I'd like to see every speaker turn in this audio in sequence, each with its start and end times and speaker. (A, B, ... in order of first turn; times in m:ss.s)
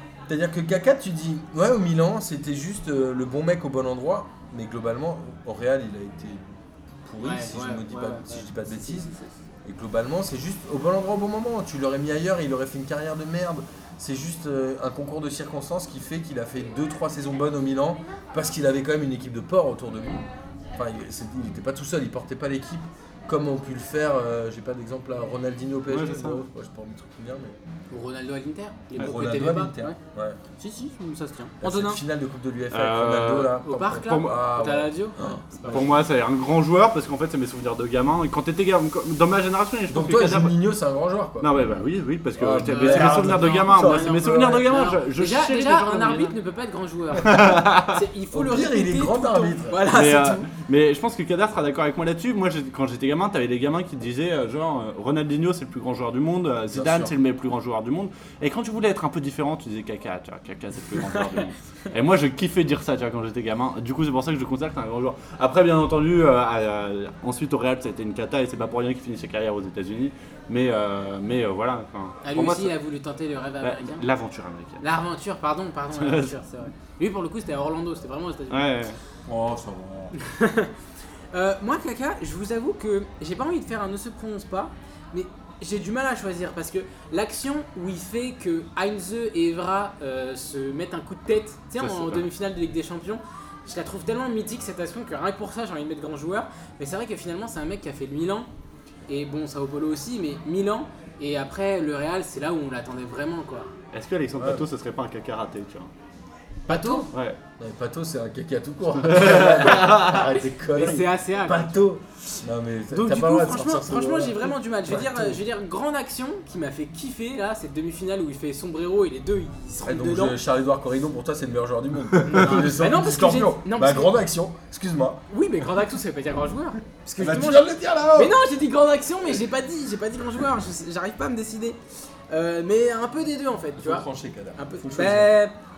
0:00.3-0:09.1 A
0:07.2-0:09.3 B
0:09.6-0:27.6 A
0:25.9-0:26.4 C
0:27.9-0:30.0 B
0:29.0-0:30.4 A
0:30.6-0:32.0 B
0:31.6-0:36.0 A
0:32.7-0:34.5 C
0:33.6-0:36.0 B
0:35.7-0:40.5 C
0:39.9-0:41.5 A
0:41.4-0:46.4 C
0:42.4-0:44.7 A
0:42.7-0:50.5 B
0:47.3-0:48.0 C
0:48.3-0:49.9 A
0:49.9-1:12.7 C
0:56.7-0:57.1 A
1:12.2-1:14.0 B
1:13.6-1:14.8 C
1:14.8-1:18.8 B
1:15.9-1:16.4 C
1:18.5-1:19.0 C
1:19.3-1:20.1 A
1:20.2-1:20.7 B
1:21.3-1:38.5 B
1:31.8-1:32.3 C
1:39.1-1:43.7 B
1:43.9-1:45.9 C
1:44.4-1:44.7 A
1:46.7-1:47.1 B
1:46.7-1:47.0 A
1:47.1-1:47.4 C
1:47.6-1:55.4 A
1:49.0-1:50.4 C
1:49.1-1:51.8 B
1:52.9-2:00.4 B
1:59.8-2:05.2 A
2:02.2-2:04.1 B
2:05.3-2:11.8 B
2:07.2-2:08.4 A
2:12.3-2:14.1 B
2:13.8-2:15.3 A
2:14.6-2:15.5 B